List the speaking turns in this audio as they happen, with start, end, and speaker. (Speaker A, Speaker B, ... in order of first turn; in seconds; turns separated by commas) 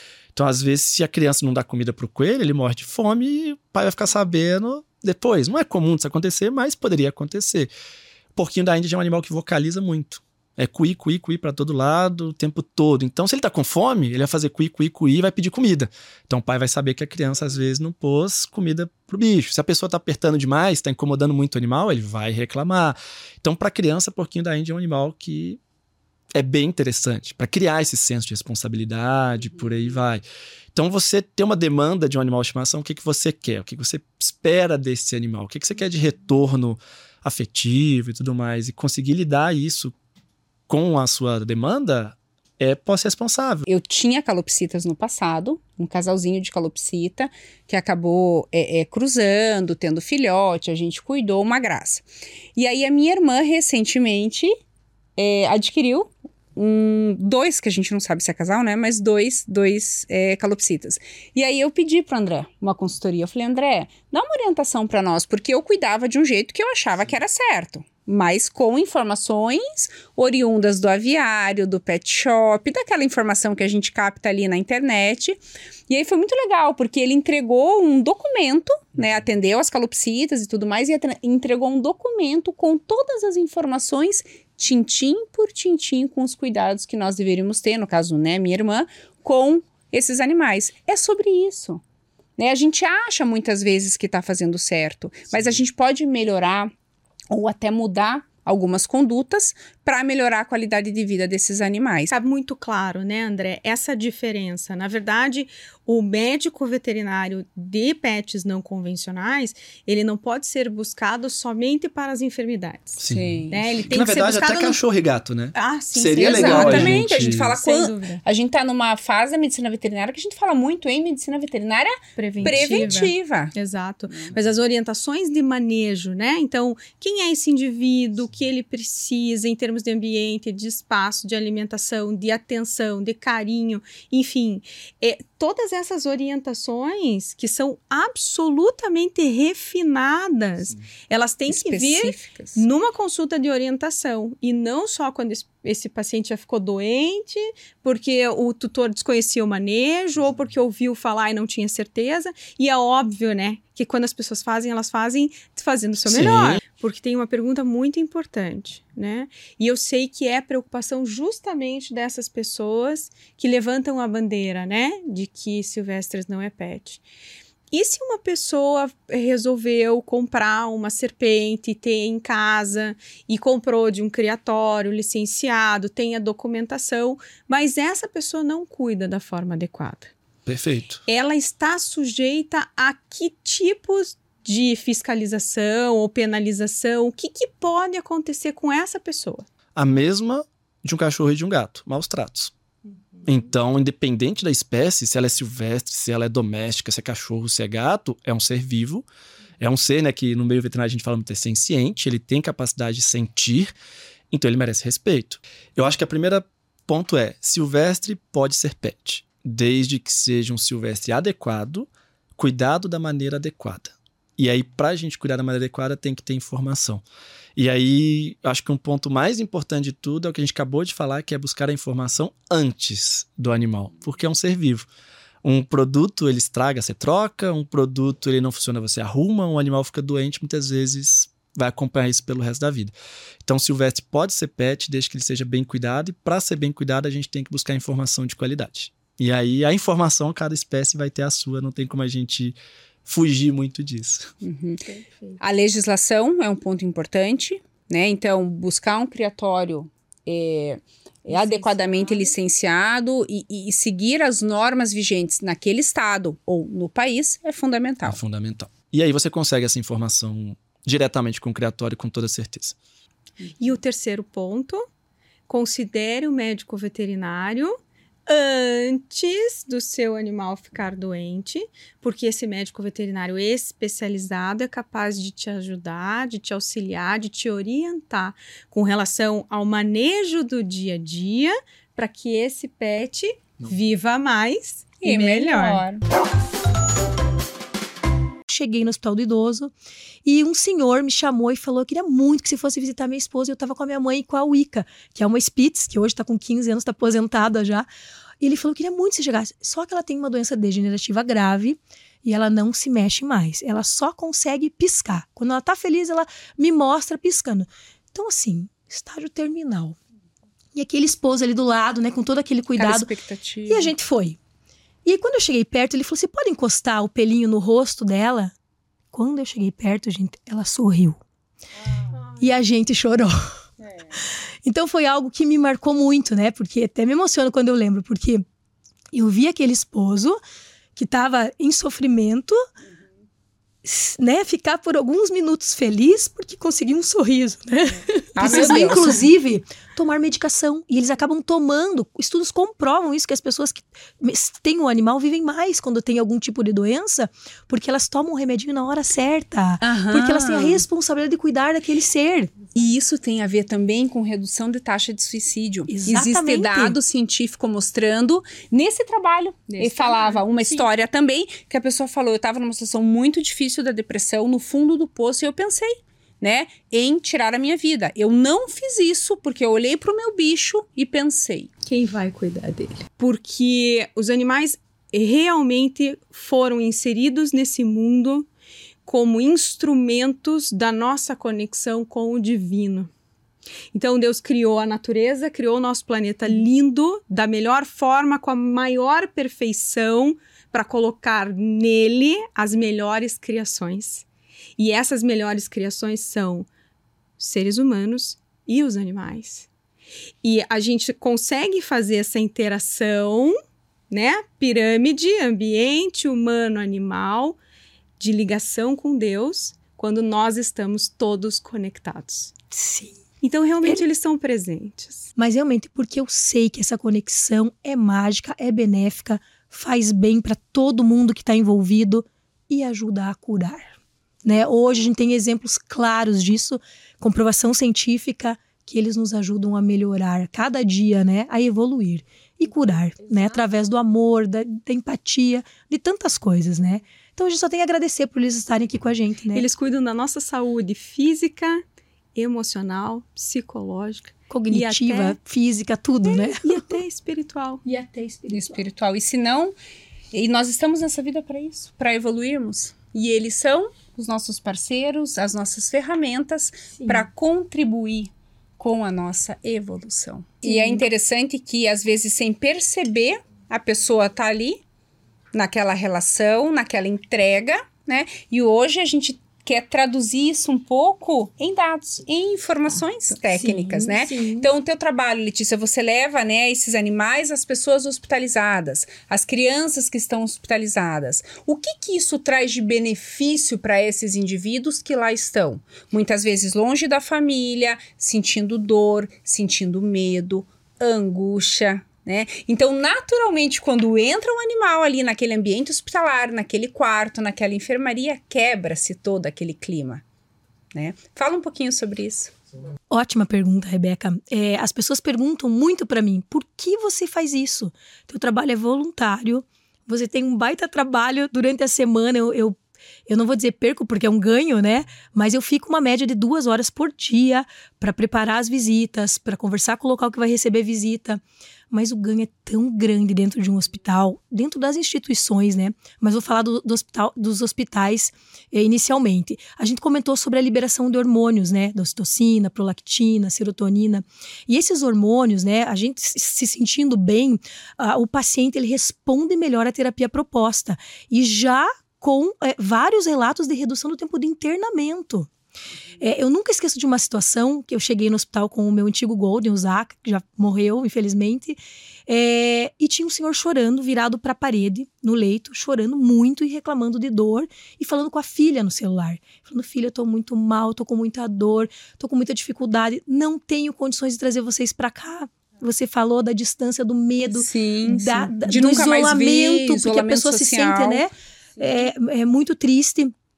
Speaker A: 0.3-7.7, Speaker A: 8.3-25.6, Speaker A: 26.4-30.2, Speaker A: 30.7-39.9, Speaker A: 40.7-43.6, Speaker B: 43.6-54.5, Speaker B: 55.1-91.8, Speaker B: 92.4-96.7, Speaker B: 97.3-102.1, Speaker C: 102.1-114.8, Speaker A: 113.0-117.5, Speaker B: 113.1-114.7, Speaker C: 115.5-118.2, Speaker B: 116.1-123.5, Speaker C: 122.2-167.0, Speaker A: 122.5-122.9, Speaker B: 141.5-142.6, Speaker A: 156.1-156.6, Speaker C: 167.7-180.1, Speaker A: 180.4-181.0, Speaker C: 181.1-189.5, Speaker A: 189.7-192.5, Speaker A: 193.2-199.0, Speaker A: 199.6-203.7, Speaker A: 204.3-217.0, Speaker A: 217.6-224.9, Speaker A: 225.4-244.3, Speaker B: 244.4-244.8, Speaker B: 245.4-258.2, Speaker A: 258.1-262.8, Speaker C: 263.6-264.8, Speaker C: 265.5-285.8, Speaker B: 285.0-286.0, Speaker D: 288.5-289.7, Speaker D: 290.2-297.9, Speaker D: 298.4-310.0, Speaker D: 310.7-313.1, Speaker B: 312.8-313.9, Speaker D: 313.7-314.4, Speaker D: 315.0-318.5, Speaker D: 319.1-321.2, Speaker D: 322.4-323.5, Speaker B: 323.8-324.1, Speaker D: 324.6-328.4, Speaker D: 329.1-330.4, Speaker D: 330.9-332.6, Speaker D: 333.8-352.5, Speaker B: 338.4-339.2, Speaker B: 349.8-350.8, Speaker B: 352.7-371.7, Speaker D: 355.9-357.0, Speaker C: 359.7-360.9, Speaker C: 371.9-378.5, Speaker C: 379.1-383.1, Speaker C: 383.9-394.2, Speaker C: 394.8-396.7, Speaker C: 397.4-399.7, Speaker C: 400.4-403.6, Speaker C: 404.1-407.6, Speaker C: 408.2-412.5, Speaker D: 412.7-413.2, Speaker C: 413.4-415.3, Speaker D: 415.4-439.6, Speaker C: 439.5-441.8, Speaker C: 442.4-445.4, Speaker D: 444.5-446.8, Speaker C: 446.2-447.8, Speaker D: 447.8-448.8, Speaker B: 448.5-449.7, Speaker B: 450.3-464.8, Speaker D: 457.0-457.3, Speaker B: 465.5-500.2, Speaker D: 473.4-474.7, Speaker B: 500.9-502.5, Speaker D: 503.1-512.8, Speaker D: 513.3-545.5, Speaker D: 546.2-573.3, Speaker B: 567.5-571.2